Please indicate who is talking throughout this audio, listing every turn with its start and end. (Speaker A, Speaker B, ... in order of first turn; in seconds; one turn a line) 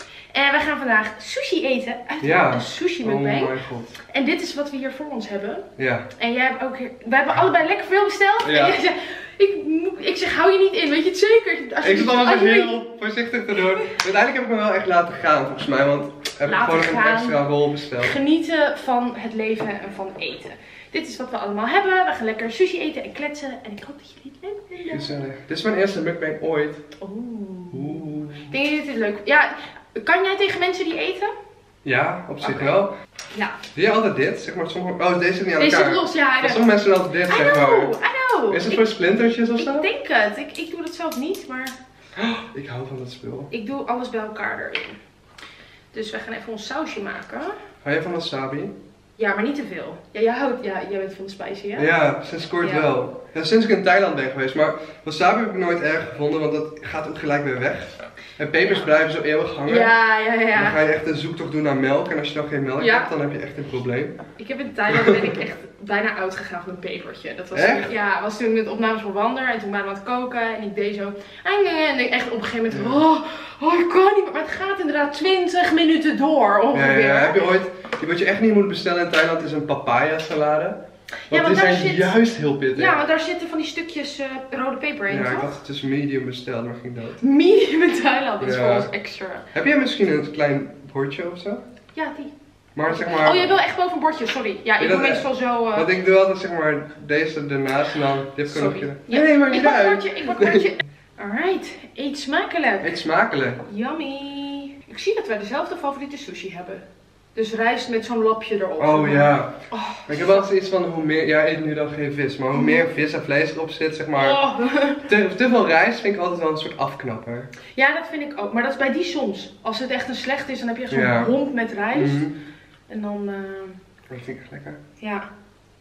Speaker A: 0.3-3.5
Speaker B: 2.2-4.0
Speaker A: 4.1-5.7
Speaker B: 5.8-6.1
Speaker A: 6.2-12.8
Speaker B: 8.4-8.8
Speaker B: 11.8-18.2
Speaker A: 16.4-17.4
Speaker A: 18.0-25.1
Speaker B: 24.9-26.8
Speaker A: 27.0-31.3
Speaker B: 27.7-28.5
Speaker B: 31.9-32.9
Speaker A: 32.4-32.8
Speaker A: 33.3-33.6
Speaker B: 33.7-37.9
Speaker A: 35.6-36.7
Speaker A: 37.3-38.9
Speaker B: 38.5-39.9
Speaker A: 39.5-41.8
Speaker B: 42.2-43.5
Speaker A: 43.5-45.0
Speaker A: 45.9-47.5
Speaker B: 47.8-48.7
Speaker A: 49.2-51.9
Speaker B: 51.8-59.9
Speaker A: 52.6-53.0
Speaker A: 59.7-60.8
Speaker B: 60.5-64.2
Speaker A: 62.8-63.1
Speaker A: 64.4-77.4
Speaker B: 64.9-65.3
Speaker B: 67.5-67.9
Speaker B: 72.7-73.0
Speaker B: 76.7-80.8
Speaker A: 81.3-82.1
Speaker B: 81.3-83.0
Speaker A: 82.8-85.6
Speaker B: 85.1-87.2
Speaker A: 87.2-89.5
Speaker B: 88.4-88.9
Speaker B: 89.5-91.6
Speaker A: 92.0-92.3
Speaker B: 92.8-93.5
Speaker A: 92.9-95.9
Speaker B: 94.8-100.7
Speaker A: 98.5-102.9
Speaker B: 102.8-103.6
Speaker A: 103.7-106.8
Speaker A: 107.3-110.5
Speaker B: 108.8-109.5
Speaker B: 110.1-114.4
Speaker A: 112.5-112.9
Speaker A: 114.2-115.0
Speaker B: 115.1-117.5
Speaker A: 117.8-122.3
Speaker B: 120.9-121.3
Speaker B: 121.9-122.3
Speaker A: 122.9-123.8
Speaker B: 124.1-124.8
Speaker A: 125.0-125.3